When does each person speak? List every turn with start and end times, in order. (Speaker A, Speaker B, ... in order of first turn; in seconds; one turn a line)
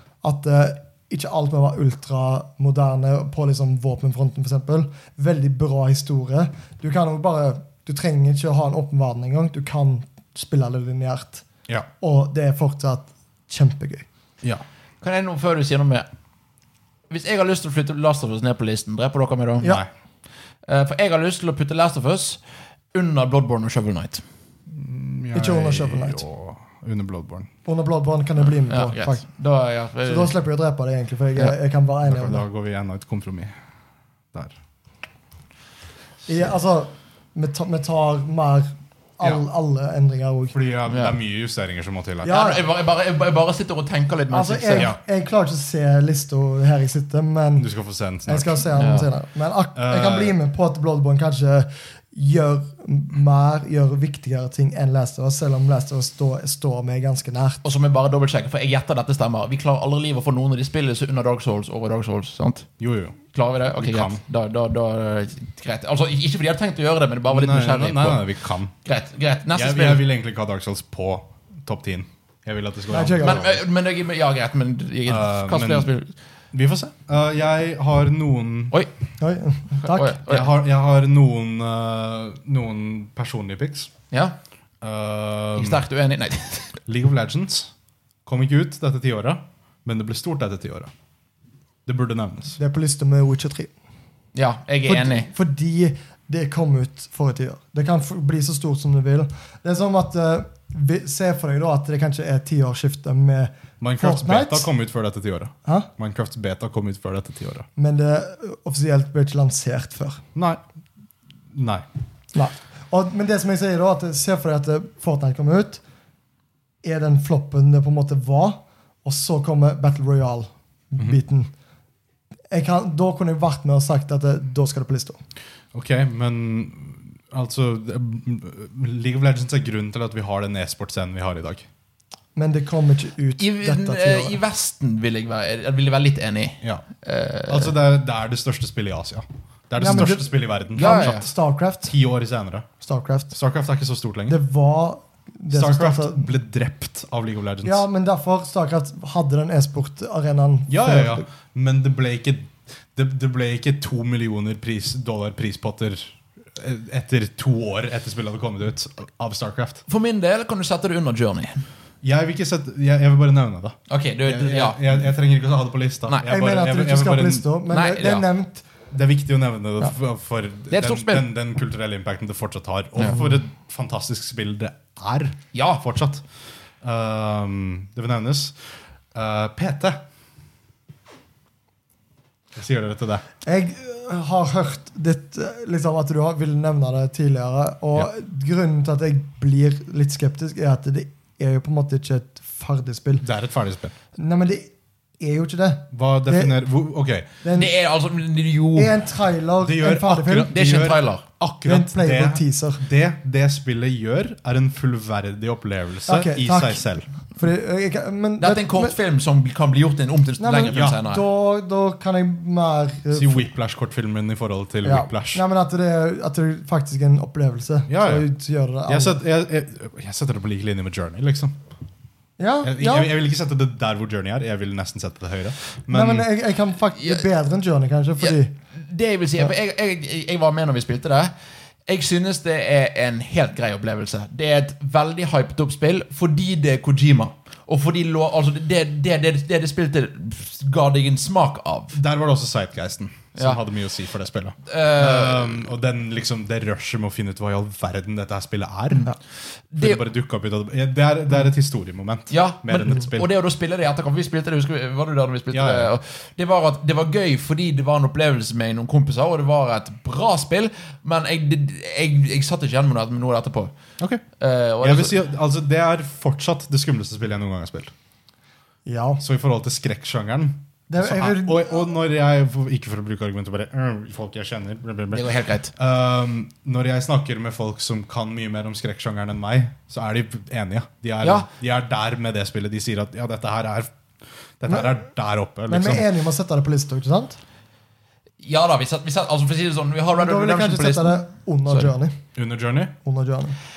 Speaker A: 0.2-11.5
Speaker A: 12.0-14.1
Speaker B: 15.0-16.1
Speaker B: 17.1-19.8
Speaker C: 19.6-19.9
Speaker B: 20.7-22.4
Speaker B: 22.9-24.2
Speaker C: 24.7-27.5
Speaker A: 25.3-26.2
Speaker A: 27.6-29.2
Speaker B: 28.7-30.3
Speaker A: 30.1-32.4
Speaker C: 32.0-33.5
Speaker A: 36.3-40.5
Speaker C: 40.5-42.4
Speaker B: 40.9-41.1
Speaker A: 42.2-42.7
Speaker B: 42.2-44.9
Speaker A: 44.3-47.7
Speaker C: 47.6-48.7
Speaker A: 48.3-57.7
Speaker B: 48.8-49.1
Speaker C: 49.8-50.4
Speaker B: 57.6-62.7
Speaker C: 62.8-63.2
Speaker B: 63.3-68.3
Speaker C: 63.8-64.2
Speaker C: 67.3-68.7
Speaker B: 68.8-70.0
Speaker C: 69.5-73.6
Speaker A: 72.9-73.4
Speaker B: 73.2-76.1
Speaker C: 75.1-75.9
Speaker C: 76.5-78.8
Speaker A: 79.2-80.1
Speaker B: 79.8-80.5
Speaker C: 80.3-83.9
Speaker B: 84.1-84.4
Speaker C: 84.8-85.8
Speaker B: 85.5-86.8
Speaker C: 86.9-87.7
Speaker C: 88.3-90.9
Speaker C: 91.9-92.6
Speaker A: 92.6-93.7
Speaker B: 94.3-95.3
Speaker A: 94.9-104.7
Speaker C: 103.8-107.7
Speaker A: 105.7-105.9
Speaker A: 107.8-110.2
Speaker C: 110.3-110.6
Speaker C: 111.5-111.8
Speaker A: 112.3-115.8
Speaker A: 116.8-121.5
Speaker A: 122.5-125.2
Speaker C: 125.7-131.7
Speaker A: 132.4-134.4
Speaker B: 133.4-137.7
Speaker C: 137.5-141.3
Speaker A: 139.8-141.9
Speaker B: 140.8-141.2
Speaker C: 141.8-142.7
Speaker A: 142.8-143.3
Speaker C: 143.3-144.4
Speaker A: 144.3-146.3
Speaker C: 145.5-147.8
Speaker A: 147.7-151.2
Speaker C: 150.7-159.8
Speaker B: 159.9-161.7
Speaker C: 162.0-167.5
Speaker B: 163.9-164.8
Speaker A: 166.3-168.7
Speaker B: 167.7-168.2
Speaker C: 168.9-176.2
Speaker B: 170.7-171.3
Speaker B: 175.5-175.8
Speaker C: 176.8-178.6
Speaker C: 179.2-180.0
Speaker C: 182.6-183.2
Speaker A: 183.4-193.2
Speaker C: 193.2-193.9
Speaker A: 194.2-196.5
Speaker C: 195.9-197.3
Speaker A: 197.4-197.7
Speaker B: 197.6-198.9
Speaker A: 198.8-200.5
Speaker C: 199.6-207.1
Speaker B: 200.5-201.2
Speaker A: 201.7-202.8
Speaker A: 206.1-208.9
Speaker B: 208.4-211.2
Speaker A: 210.4-213.5
Speaker C: 210.7-211.0
Speaker C: 213.1-215.4
Speaker A: 214.8-219.2
Speaker C: 217.9-218.3
Speaker C: 218.9-221.6
Speaker A: 222.4-223.1
Speaker C: 222.6-226.3
Speaker A: 225.9-228.5
Speaker B: 227.0-227.2
Speaker B: 228.2-231.3
Speaker B: 231.9-242.0
Speaker C: 241.9-249.1
Speaker B: 244.7-245.7
Speaker B: 249.7-250.0
Speaker C: 249.8-253.3
Speaker B: 252.3-263.7
Speaker C: 255.5-255.9
Speaker B: 264.4-265.2
Speaker C: 264.8-267.9
Speaker A: 268.9-269.2
Speaker C: 269.2-283.9
Speaker A: 270.9-271.9
Speaker B: 275.1-275.7
Speaker B: 281.2-281.5
Speaker C: 284.6-286.1
Speaker A: 285.7-287.4
Speaker B: 288.4-291.9
Speaker A: 290.2-292.2
Speaker C: 292.4-292.9
Speaker A: 293.0-293.6